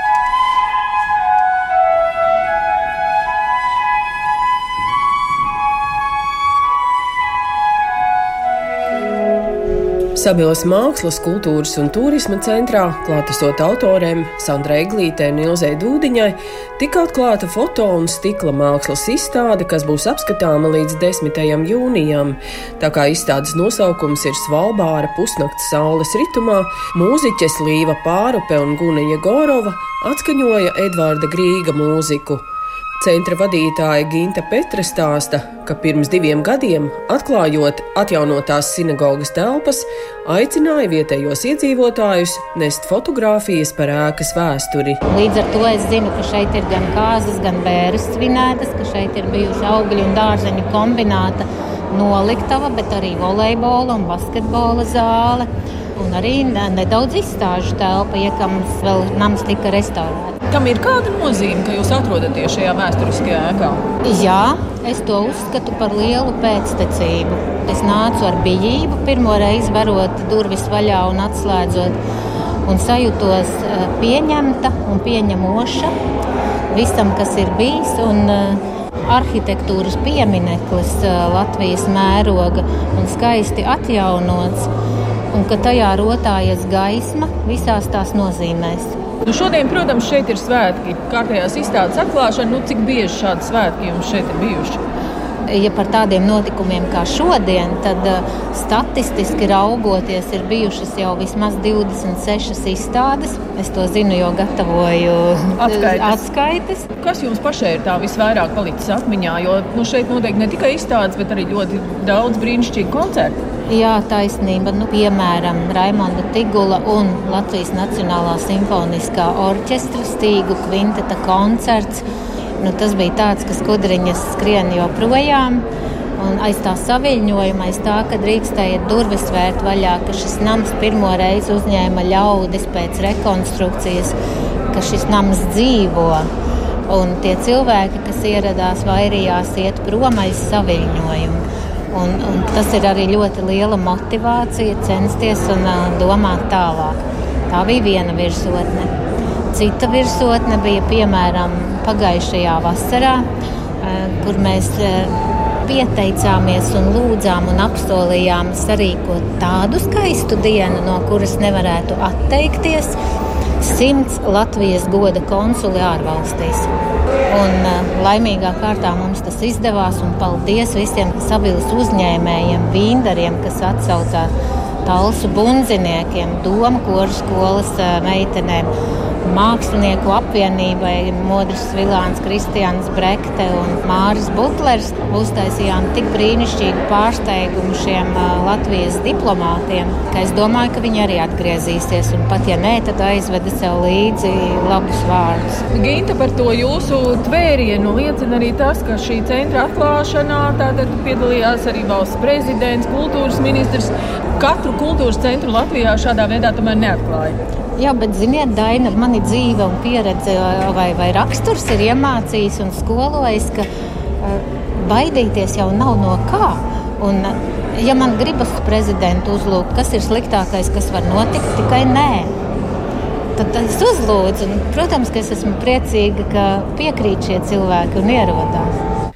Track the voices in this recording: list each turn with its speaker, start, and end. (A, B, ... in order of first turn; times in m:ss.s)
0:10.2-0:32.4 A
0:33.0-0:45.0 A
0:45.1-1:00.4 B
1:00.5-1:03.8 C
1:04.0-1:12.0 B
1:12.6-1:15.9 B
1:16.7-1:24.7 B
1:25.3-1:28.9 B
1:29.2-1:34.8 C
1:35.5-1:46.8 B
1:45.6-1:46.2 C
1:47.0-1:53.4 C
1:53.7-2:02.0 B
2:02.6-2:05.6 B
2:06.2-2:14.2 B
2:14.7-2:16.3 B
2:16.9-2:28.9 B
2:29.5-2:33.2 B
2:33.8-2:35.1 B
2:35.6-2:43.0 B
2:43.6-2:46.7 B
2:47.3-2:54.3 B
2:54.8-2:58.7 B
2:59.2-3:15.6 B
3:15.7-3:27.4 C
3:27.8-3:33.7 B
3:34.2-3:42.3 B
3:43.4-3:48.7 B